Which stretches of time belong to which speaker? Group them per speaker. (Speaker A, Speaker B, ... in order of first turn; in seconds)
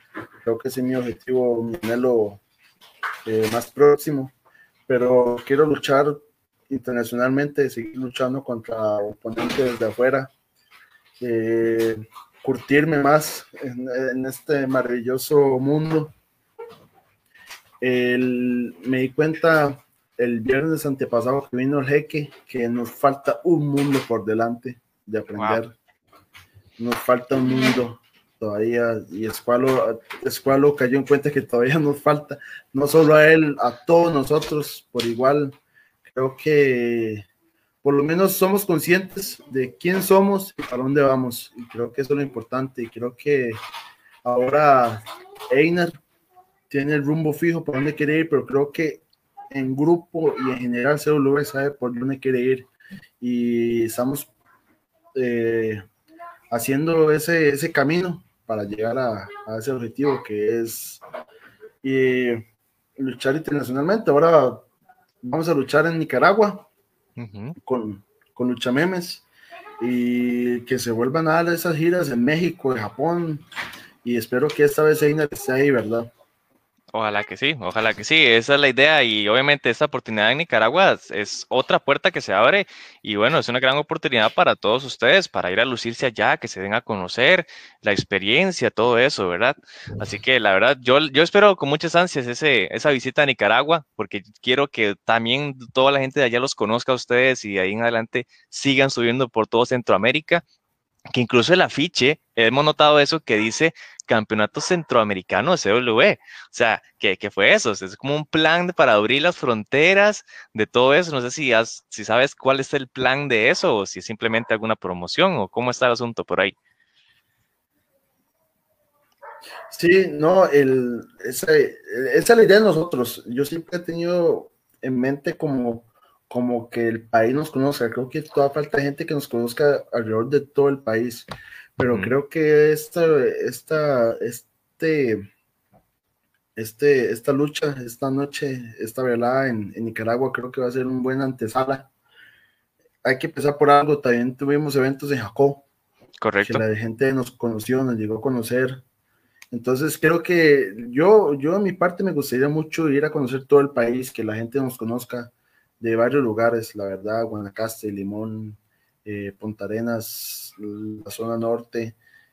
Speaker A: 0.4-2.4, 3.3-4.3, 4.9-10.3, 11.2-16.1, 17.8-25.7, 26.8-37.3, 37.8-43.6, 44.2-46.0, 46.7-52.7, 53.2-54.3, 55.1-55.8, 56.5-61.0, 61.8-62.5, 63.0-64.7, 65.2-66.7, 67.6-69.2, 69.8-73.5, 74.0-76.1, 119.7-131.3, 131.8-135.3, 136.6-141.9, 143.0-145.7, 146.4-148.8, 149.5-162.0
Speaker B: 25.4-25.6, 67.2-67.5, 76.9-100.4, 101.1-116.5, 146.2-146.6